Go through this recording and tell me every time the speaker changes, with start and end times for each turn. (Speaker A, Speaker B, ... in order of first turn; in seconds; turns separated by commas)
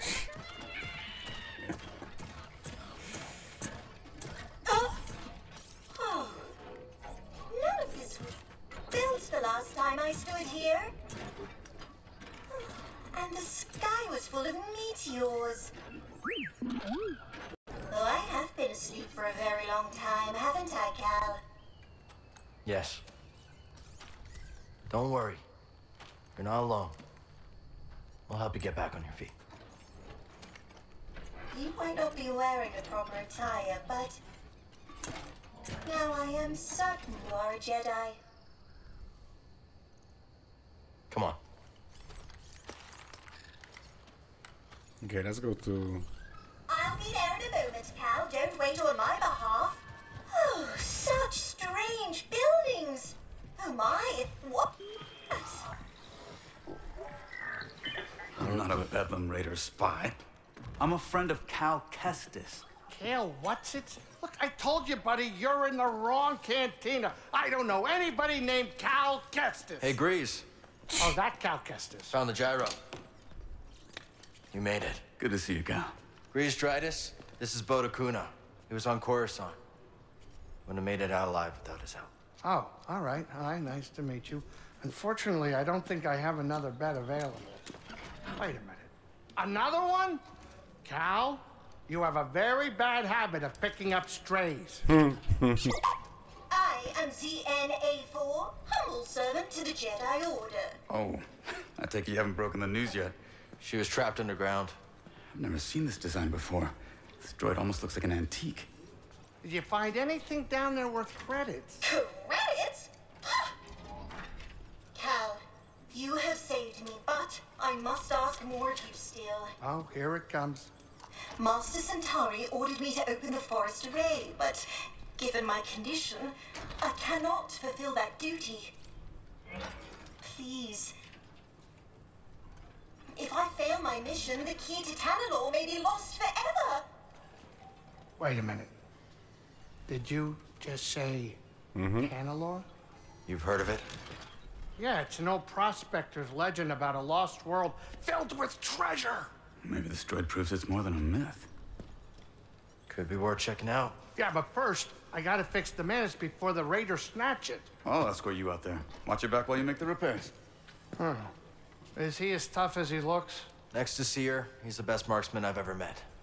Speaker A: 4.7-5.0, Speaker A: 5.9-6.5, Speaker A: 7.5-8.4, Speaker A: 8.9-10.9, Speaker A: 12.5-15.7, Speaker A: 17.9-21.4, Speaker B: 22.6-23.0, Speaker B: 24.9-25.4, Speaker B: 26.4-26.9, Speaker B: 28.3-29.3, Speaker A: 31.5-34.2, Speaker A: 35.9-38.2, Speaker B: 41.1-41.4, Speaker C: 45.0-46.1, Speaker A: 46.7-54.8, Speaker A: 55.3-55.7, Speaker D: 58.4-60.2, Speaker D: 60.8-62.6, Speaker E: 62.9-70.0, Speaker B: 69.8-70.5, Speaker E: 71.0-72.2, Speaker B: 72.1-72.8, Speaker B: 74.5-75.0, Speaker D: 75.2-75.9, Speaker B: 76.3-79.6, Speaker B: 80.7-82.1, Speaker E: 82.4-87.6, Speaker E: 88.3-90.2, Speaker E: 90.8-94.9, Speaker C: 94.9-95.8, Speaker A: 96.5-100.8, Speaker D: 100.9-103.1, Speaker B: 103.6-104.8, Speaker D: 105.3-108.7, Speaker E: 109.4-111.8, Speaker A: 111.8-113.5, Speaker A: 114.9-119.5, Speaker E: 119.6-120.7, Speaker A: 121.4-128.7, Speaker A: 130.2-130.9, Speaker A: 133.1-136.9, Speaker E: 138.2-138.7, Speaker E: 139.9-141.4, Speaker C: 141.8-142.1, Speaker E: 142.0-142.7, Speaker B: 143.3-143.9, Speaker E: 144.8-149.3, Speaker D: 149.6-151.5, Speaker B: 152.9-153.9, Speaker E: 154.2-157.7, Speaker D: 157.8-160.3, Speaker E: 161.0-161.3, Speaker E: 161.9-163.5, Speaker B: 163.7-166.1